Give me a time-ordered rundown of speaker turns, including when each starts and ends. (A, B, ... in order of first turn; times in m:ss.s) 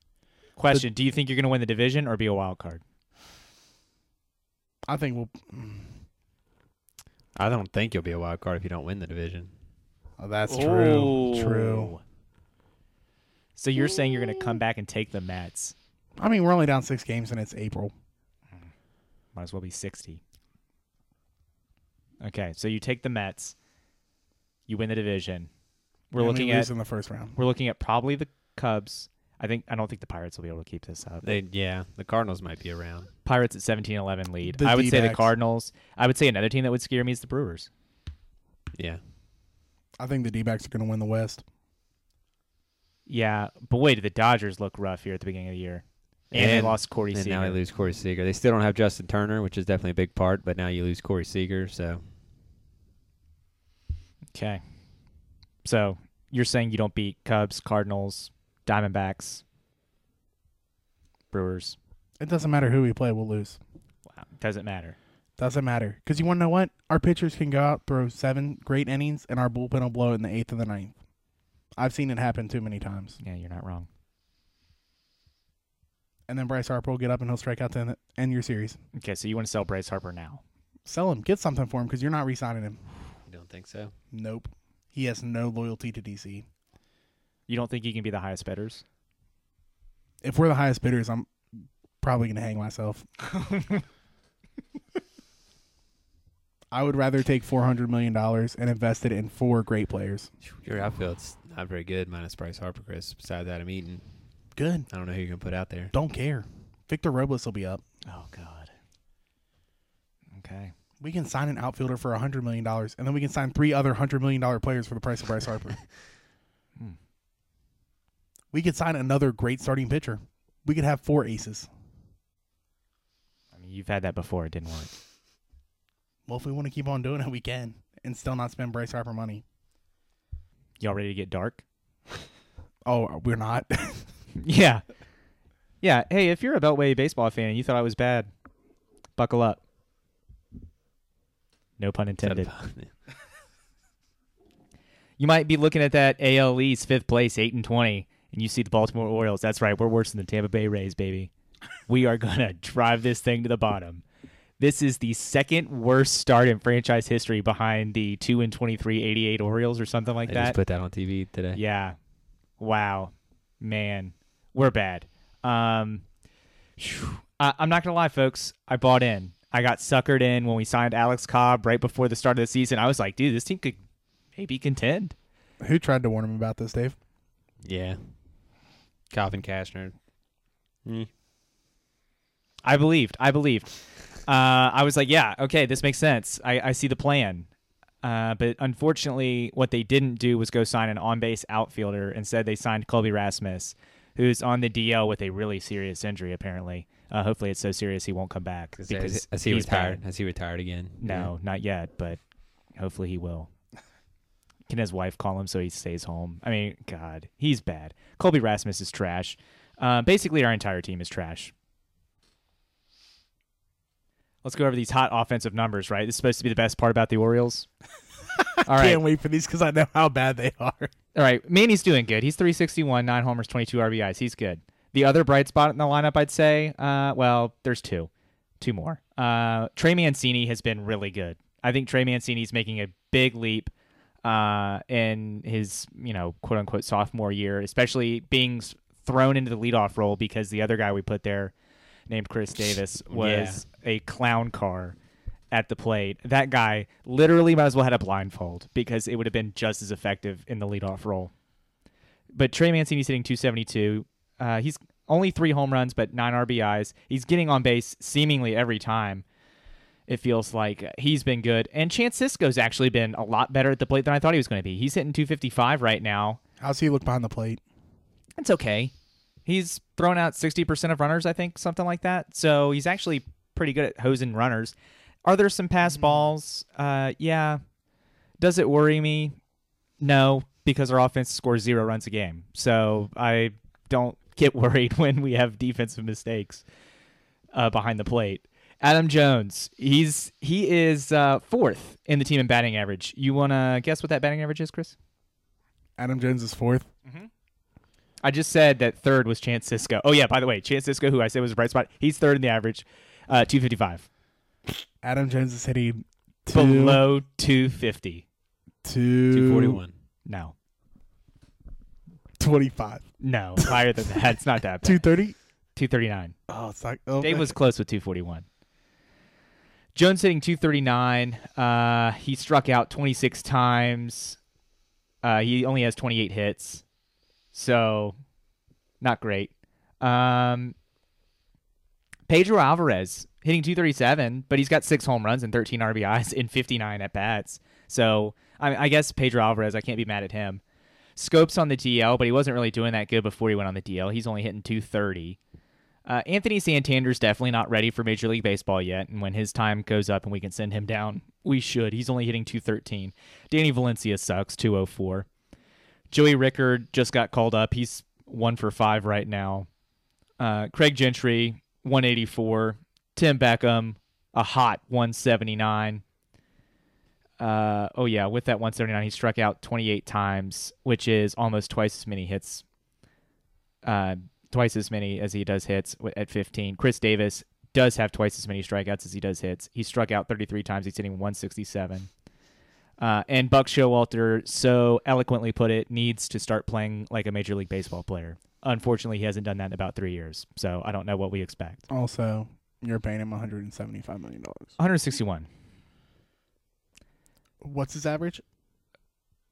0:00.6-0:02.8 A
0:04.9-0:06.0 B
0:07.4-0:09.5 C
0:10.2-0:12.0 B
0:10.5-0:12.0 A
0:13.6-0:15.7 A
0:16.2-0:17.9 B
0:19.3-0:20.2 A
0:22.2-0:23.6 A
0:24.7-0:25.5 A
0:26.1-0:26.7 A
0:26.2-0:27.4 B
0:27.4-0:31.3 A
0:31.2-0:33.1 C
0:33.2-0:37.7 A
0:34.4-0:35.3 B
0:38.8-0:39.0 C
0:40.0-0:41.4 B
0:43.1-0:47.6 A
0:46.3-0:52.1 C
0:54.3-0:54.6 A
0:55.6-0:59.4 A
1:01.3-1:01.8 A
1:02.2-1:03.6 B
1:04.1-1:05.0 A
1:05.4-1:11.0 B
1:11.8-1:13.2 B
1:13.2-1:13.9 A
1:16.3-1:18.8 B
1:18.9-1:20.4 A
1:20.9-1:22.9 B
1:23.3-1:23.9 C
1:24.1-1:26.5 B
1:27.5-1:28.8 A
1:30.2-1:33.1 B
1:36.7-1:40.3 B
1:40.4-1:44.1 C
1:44.6-1:44.9 B
1:44.9-1:45.9 C
1:45.9-1:47.8 B
1:48.1-1:48.7 A
1:50.3-1:50.7 A
1:51.0-1:56.0 B
1:58.5-2:01.7 B
2:03.5-2:04.9 A
2:06.3-2:09.4 B
2:10.8-2:11.6 A
2:12.8-2:14.1 B
2:14.4-2:14.8 A
2:15.8-2:18.3 A
2:19.2-2:19.6 A
2:21.8-2:22.5 A
2:22.2-2:22.9 C
2:25.2-2:31.3 A
2:31.9-2:34.0 A
2:34.6-2:40.6 A
2:40.3-2:41.6 C
2:41.5-2:42.0 A
2:42.6-2:46.0 A
2:46.8-2:53.8 A
2:54.4-2:55.2 A
2:55.6-2:57.0 B
2:57.6-2:58.1 C
2:59.1-3:00.0 C
3:00.8-3:01.1 C
3:02.6-3:07.5 A
3:08.0-3:20.0 A
3:18.8-3:21.3 C
3:21.0-3:22.2 A
3:22.8-3:23.5 A
3:24.7-3:31.5 A
3:34.4-3:37.7 A
3:38.4-3:40.9 B
3:38.6-3:39.0 A
3:41.2-3:53.7 A
3:54.2-4:01.5 A
4:02.1-4:05.0 A
4:03.1-4:03.6 C
4:05.5-4:11.3 A
4:12.3-4:19.2 A
4:20.1-4:26.4 A
4:26.6-4:27.6 B
4:28.4-4:28.9 A
4:29.5-4:37.6 A
4:38.4-4:39.4 A
4:40.0-4:46.6 A
4:47.5-4:55.0 A
4:56.0-4:56.9 B
4:58.2-5:04.1 A
5:05.0-5:07.0 B
5:06.5-5:08.2 A
5:08.8-5:09.8 B
5:09.3-5:09.9 C
5:10.3-5:10.5 A
5:12.4-5:13.1 B
5:13.2-5:15.0 A
5:14.8-5:15.4 B
5:15.8-5:16.4 A
5:16.5-5:17.6 B
5:17.2-5:18.5 A
5:20.0-5:24.4 A
5:25.2-5:26.8 A
5:27.5-5:28.2 A
5:29.0-5:30.8 A
5:32.3-5:40.6 A
5:41.2-5:45.4 A
5:46.1-5:55.3 A
5:56.1-5:59.7 A
6:00.4-6:06.0 A
6:07.4-6:12.6 A
6:13.8-6:22.1 A
6:23.0-6:31.8 A
6:31.9-6:34.7 B
6:34.8-6:35.5 A
6:37.6-6:38.4 B